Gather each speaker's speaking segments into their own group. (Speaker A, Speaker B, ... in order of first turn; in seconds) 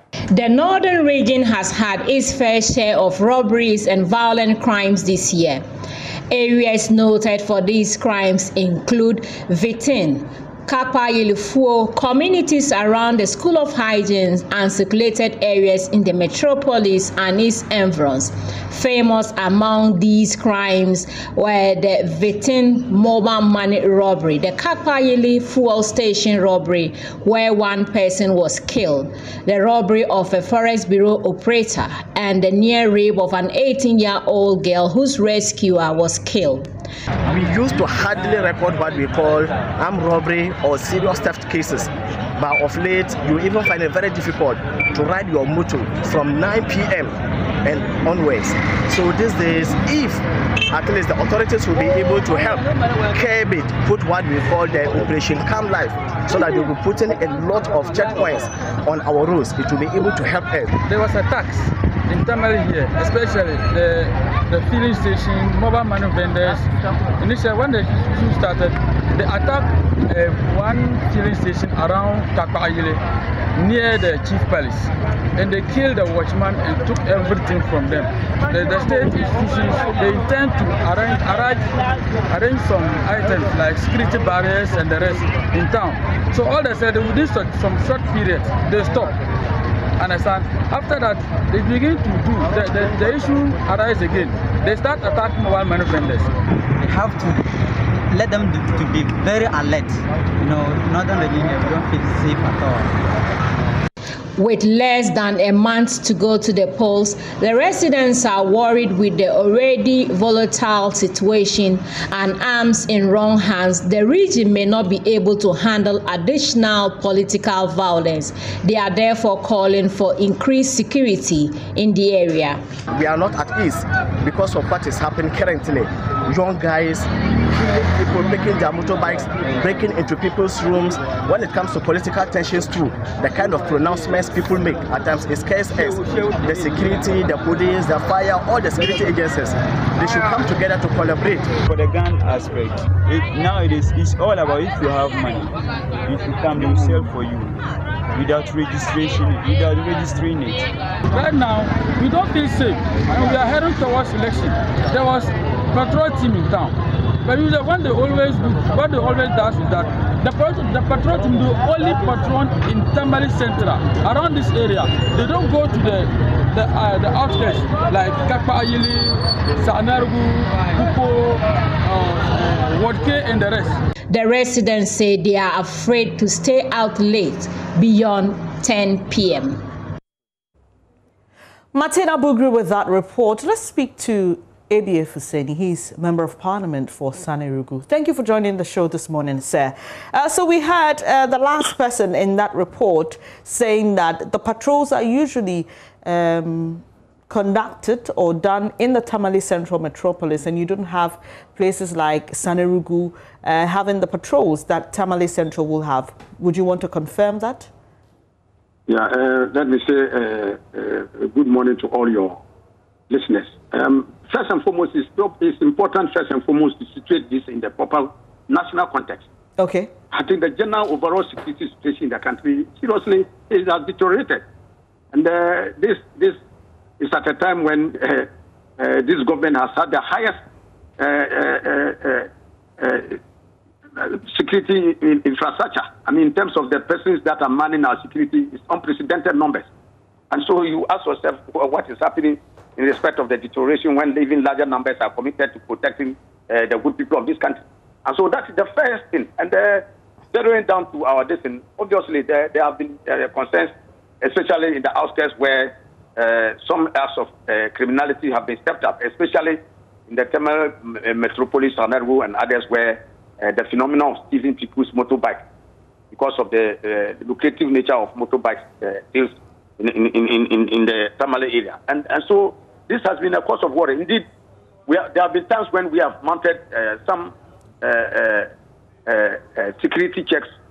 Speaker A: 0.3-5.6, 6.3-36.7, 104.4-122.6, 174.1-179.6
Speaker B: 37.3-60.7, 122.9-141.5
Speaker C: 60.9-73.0, 73.6-81.7, 82.3-89.2, 90.0-96.3, 151.1-173.8
Speaker D: 96.8-97.5, 98.1-103.0
Speaker E: 135.8-137.1, 141.7-150.7
Speaker F: 181.7-207.7, 219.6-219.9
Speaker G: 208.9-212.4, 213.1-219.2, 220.1-224.4, 225.1-226.4, 227.0-230.3, 231.0-232.3, 232.8-233.2, 234.0-239.7, 240.3-265.4, 266.1-274.3, 274.9-278.5, 279.1-280.5